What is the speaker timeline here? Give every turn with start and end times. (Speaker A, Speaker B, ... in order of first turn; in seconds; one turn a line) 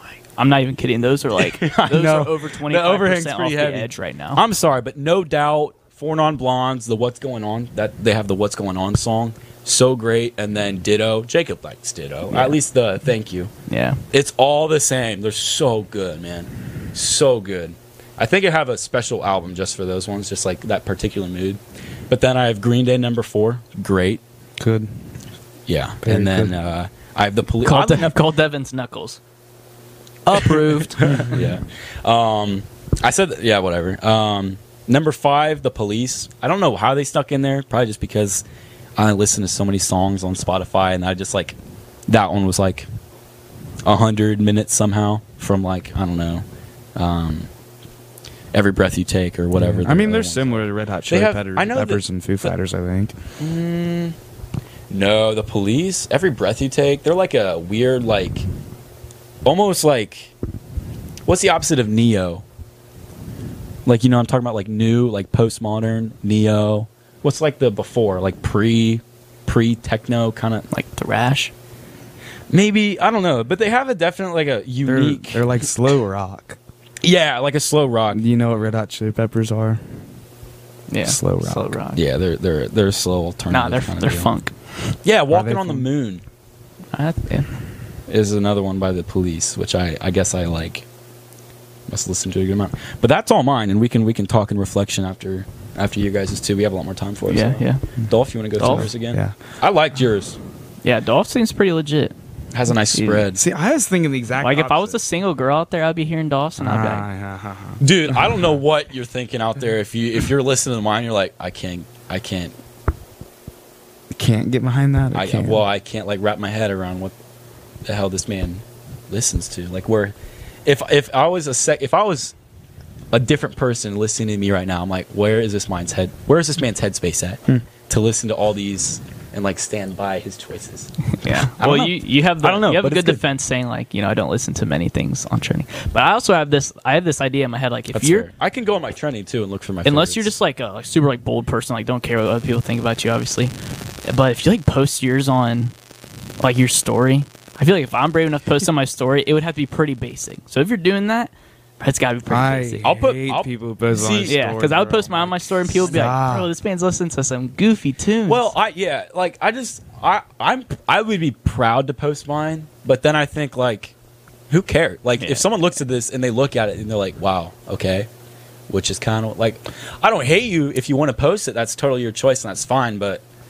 Speaker A: 0.4-4.4
Speaker B: 1.4-13.5
Speaker A: 12.3-12.6
Speaker A: 13.7-14.0
Speaker B: 14.1-24.2
Speaker C: 24.6-24.9
Speaker B: 25.7-28.1
Speaker C: 26.0-26.5
Speaker A: 27.6-29.2
Speaker A: 30.2-31.4
Speaker B: 30.4-38.4
Speaker B: 39.0-41.6
Speaker B: 42.1-42.9
Speaker B: 43.8-46.4
Speaker B: 47.0-47.5
Speaker B: 48.5-52.5
Speaker C: 49.6-53.1
Speaker B: 53.4-54.1
Speaker B: 54.9-58.5
Speaker B: 59.4-60.3
Speaker B: 61.2-62.4
Speaker B: 63.9-70.7
Speaker A: 70.7-71.5
Speaker B: 72.5-75.6
Speaker C: 74.8-76.6
Speaker B: 77.0-78.2
Speaker C: 78.1-79.8
Speaker A: 80.9-82.0
Speaker C: 81.0-81.8
Speaker B: 81.9-84.3
Speaker A: 83.5-85.0
Speaker B: 85.0-86.2
Speaker C: 85.3-85.9
Speaker A: 86.9-87.5
Speaker B: 88.1-90.8
Speaker B: 91.9-100.4
Speaker A: 97.3-97.8
Speaker A: 98.6-98.9
Speaker C: 98.6-99.3
Speaker A: 100.8-102.1
Speaker B: 102.5-103.4
Speaker A: 102.9-103.2
Speaker C: 103.3-105.0
Speaker A: 104.4-107.0
Speaker C: 106.6-107.8
Speaker B: 107.8-112.5
Speaker C: 114.1-115.6
Speaker B: 115.1-117.1
Speaker B: 117.8-122.3
Speaker B: 123.1-133.2
Speaker A: 131.1-138.3
Speaker B: 137.9-140.3
Speaker A: 139.8-143.5
Speaker A: 144.1-145.7
Speaker A: 146.4-152.8
Speaker C: 152.3-156.5
Speaker B: 152.8-154.3
Speaker A: 154.2-158.5
Speaker B: 158.3-163.9
Speaker B: 164.5-168.1
Speaker A: 165.2-165.4
Speaker B: 168.7-173.2